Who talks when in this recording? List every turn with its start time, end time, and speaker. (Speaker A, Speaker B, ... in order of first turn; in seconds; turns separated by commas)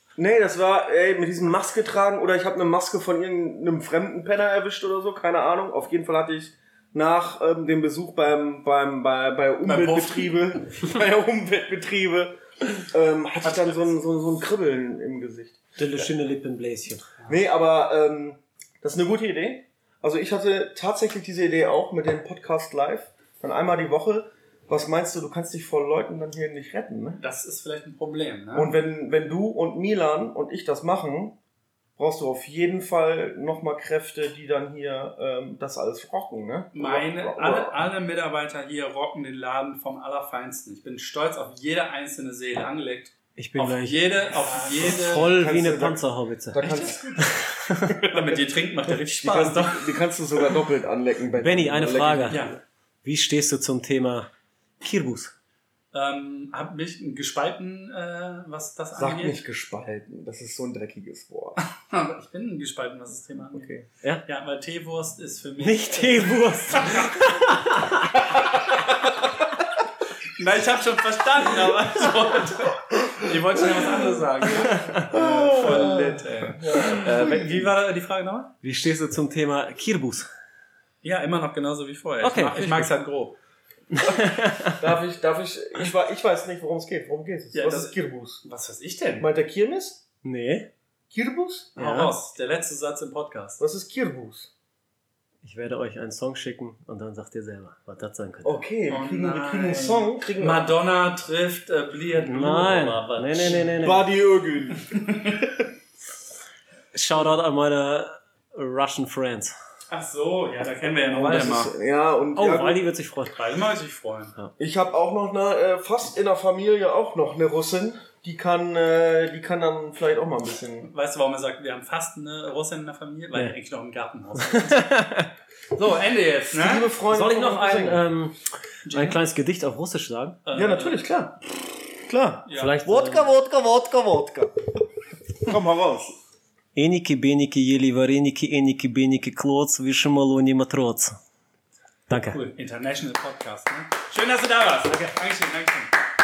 Speaker A: 0.2-15.6, Speaker B: 9.6-10.6, Speaker B: 13.4-13.8, Speaker C: 15.8-17.1, Speaker A: 17.3-27.2, Speaker B: 27.2-28.7, Speaker A: 28.5-31.4, Speaker A: 32.0-37.8, Speaker B: 36.7-45.4, Speaker C: 43.4-46.7, Speaker A: 44.7-52.4, Speaker B: 46.6-47.3, Speaker C: 47.2-47.9, Speaker B: 48.0-50.0, Speaker C: 51.4-52.5, Speaker B: 52.3-52.6, Speaker C: 53.0-54.3, Speaker C: 54.8-55.3, Speaker B: 55.9-59.4, Speaker A: 59.0-61.6, Speaker B: 61.7-63.7, Speaker A: 63.5-63.9, Speaker B: 64.2-67.5, Speaker C: 65.6-68.1, Speaker B: 70.4-78.5, Speaker A: 73.8-74.1, Speaker C: 74.6-75.0, Speaker A: 75.0-77.7, Speaker C: 78.6-80.3, Speaker B: 81.0-83.4, Speaker C: 82.2-82.9, Speaker C: 83.9-84.8, Speaker A: 84.8-88.4, Speaker B: 87.5-89.3, Speaker A: 89.2-90.0, Speaker C: 90.2-90.7, Speaker A: 91.1-91.8, Speaker C: 91.8-92.1, Speaker B: 91.8-93.6, Speaker A: 93.6-94.5, Speaker C: 95.4-98.6, Speaker A: 98.4-100.7, Speaker B: 98.9-103.9, Speaker C: 102.2-104.1, Speaker A: 103.7-105.4, Speaker B: 104.9-105.4, Speaker C: 106.9-109.5, Speaker B: 109.9-111.7, Speaker A: 111.1-112.8, Speaker C: 112.3-113.4, Speaker B: 113.3-114.3, Speaker A: 114.6-120.9, Speaker B: 120.8-124.9, Speaker C: 124.4-125.3, Speaker B: 125.7-126.9, Speaker A: 126.5-128.0, Speaker C: 127.1-128.4, Speaker B: 128.9-129.2, Speaker C: 128.9-130.4, Speaker B: 130.4-131.0, Speaker A: 130.5-134.6, Speaker B: 132.5-132.8, Speaker C: 132.5-133.3, Speaker A: 135.4-136.1, Speaker C: 136.7-141.2, Speaker C: 142.1-142.4, Speaker B: 142.2-145.9